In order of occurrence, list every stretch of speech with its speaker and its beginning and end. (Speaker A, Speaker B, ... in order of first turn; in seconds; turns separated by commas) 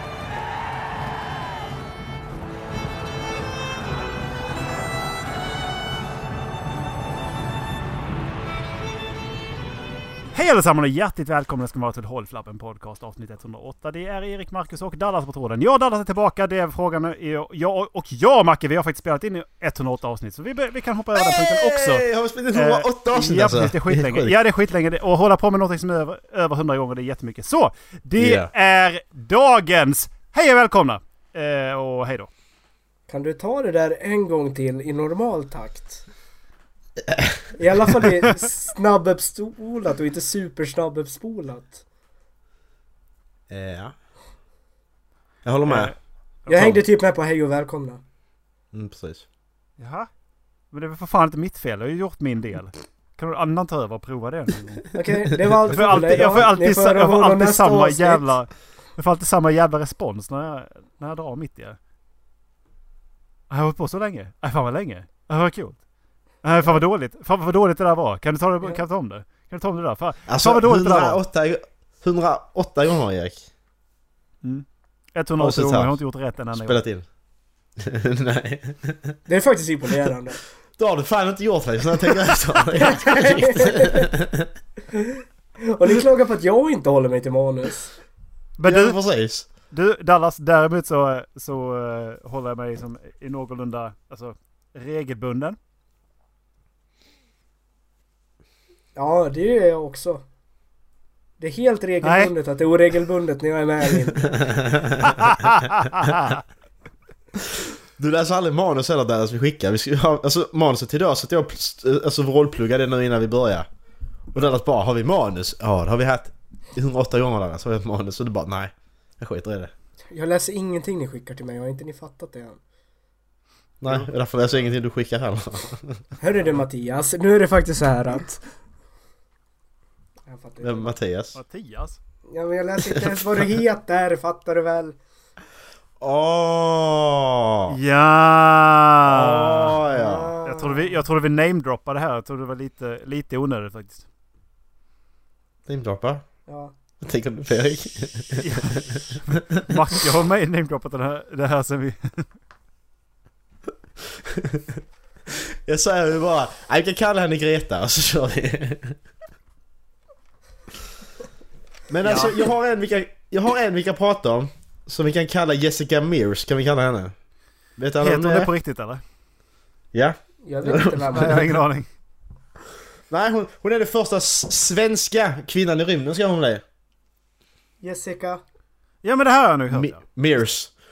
Speaker A: 10.3-32.3, Speaker B: 21.1-24.3, Speaker B: 28.2-28.5, Speaker C: 33.1-36.0, Speaker B: 37.0-37.5, Speaker C: 37.5-41.8, Speaker B: 43.5-43.9, Speaker B: 45.4-45.9, Speaker A: 45.6-46.7, Speaker C: 46.5-48.0, Speaker B: 46.5-46.8, Speaker B: 48.7-49.2, Speaker A: 49.8-50.1, Speaker A: 50.7-55.0, Speaker C: 54.9-58.3, Speaker A: 55.5-61.8, Speaker A: 63.5-65.8, Speaker A: 66.4-71.2, Speaker B: 70.3-73.4, Speaker A: 74.4-76.8, Speaker B: 75.4-76.0, Speaker B: 76.5-77.0, Speaker B: 77.8-79.2, Speaker C: 79.3-80.4, Speaker B: 80.8-84.5, Speaker C: 82.7-84.1, Speaker C: 84.9-88.0, Speaker A: 88.6-89.0, Speaker B: 88.6-89.5, Speaker A: 89.7-95.6, Speaker C: 99.0-100.2, Speaker C: 101.4-104.5, Speaker A: 102.0-102.3, Speaker B: 104.3-105.1, Speaker A: 105.0-106.4, Speaker B: 107.5-113.7, Speaker B: 114.3-119.7, Speaker C: 120.1-122.6, Speaker B: 123.8-126.0, Speaker A: 123.8-124.7, Speaker C: 126.2-128.4, Speaker C: 130.2-131.0, Speaker B: 130.6-131.4, Speaker A: 131.3-132.0, Speaker C: 132.3-135.0, Speaker B: 132.8-133.5, Speaker B: 136.0-137.8, Speaker A: 137.7-139.8, Speaker B: 139.0-140.3, Speaker C: 139.8-141.0, Speaker A: 140.4-144.1, Speaker B: 145.7-146.2, Speaker C: 146.5-146.7, Speaker B: 147.0-149.8, Speaker A: 148.4-152.3, Speaker B: 154.1-159.0, Speaker B: 161.9-167.1, Speaker A: 162.0-162.4, Speaker B: 167.8-168.5, Speaker A: 168.0-169.0, Speaker B: 169.9-171.4, Speaker C: 170.4-171.5, Speaker A: 171.1-171.9, Speaker B: 173.1-176.6, Speaker C: 177.8-178.4, Speaker A: 179.0-180.0, Speaker B: 179.7-180.7